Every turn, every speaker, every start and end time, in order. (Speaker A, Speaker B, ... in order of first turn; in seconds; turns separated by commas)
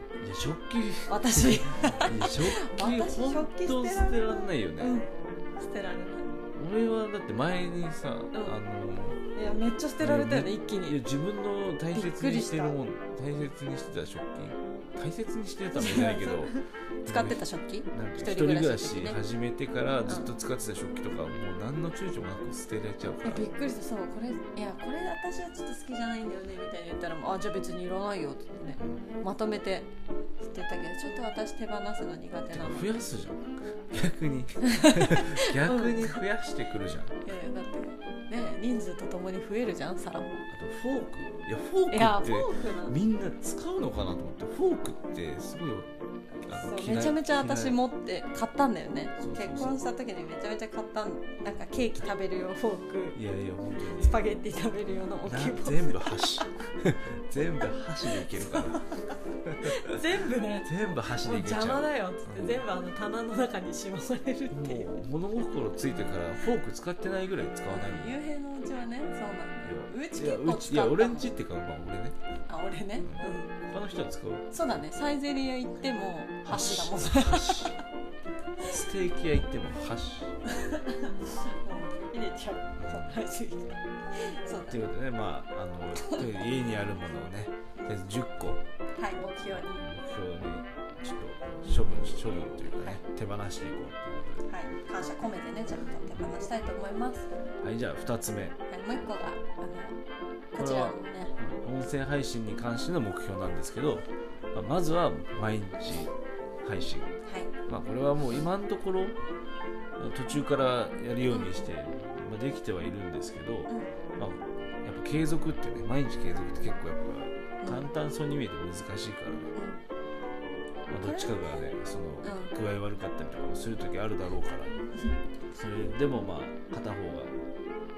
Speaker A: 0.2-5.0, Speaker B: 1.1-6.3, Speaker A: 6.5-9.2, Speaker B: 9.3-11.0, Speaker A: 10.0-17.4, Speaker B: 11.9-12.8, Speaker B: 15.7-19.2, Speaker A: 17.9-23.4, Speaker B: 23.2-32.9, Speaker A: 28.8-29.0, Speaker A: 32.5-37.1, Speaker B: 34.6-36.2, Speaker B: 37.2-40.5, Speaker A: 40.5-45.9, Speaker B: 41.9-43.0, Speaker B: 46.4-53.2, Speaker A: 46.5-47.8, Speaker A: 49.2-49.8, Speaker A: 53.1-54.2, Speaker B: 53.9-56.5, Speaker A: 55.2-58.8, Speaker B: 58.1-64.9, Speaker A: 59.5-60.0, Speaker A: 60.6-62.6, Speaker A: 64.5-68.2, Speaker B: 67.7-71.3, Speaker A: 69.6-72.2, Speaker B: 72.5-73.5, Speaker A: 73.0-74.5, Speaker B: 74.5-77.8, Speaker A: 76.4-77.7, Speaker A: 78.6-80.4, Speaker B: 80.5-84.8, Speaker A: 82.8-83.2, Speaker A: 84.7-88.6, Speaker B: 86.0-86.8, Speaker B: 89.0-89.8, Speaker A: 89.7-94.4, Speaker B: 94.4-97.3, Speaker A: 97.6-98.6, Speaker B: 98.7-100.0, Speaker B: 100.5-101.4, Speaker A: 100.6-107.1, Speaker B: 107.2-107.5, Speaker A: 107.7-109.2, Speaker A: 110.0-119.5, Speaker B: 117.6-117.9, Speaker B: 119.5-119.8, Speaker A: 120.9-124.7, Speaker B: 121.0-121.7, Speaker B: 122.2-122.5, Speaker A: 125.5-127.3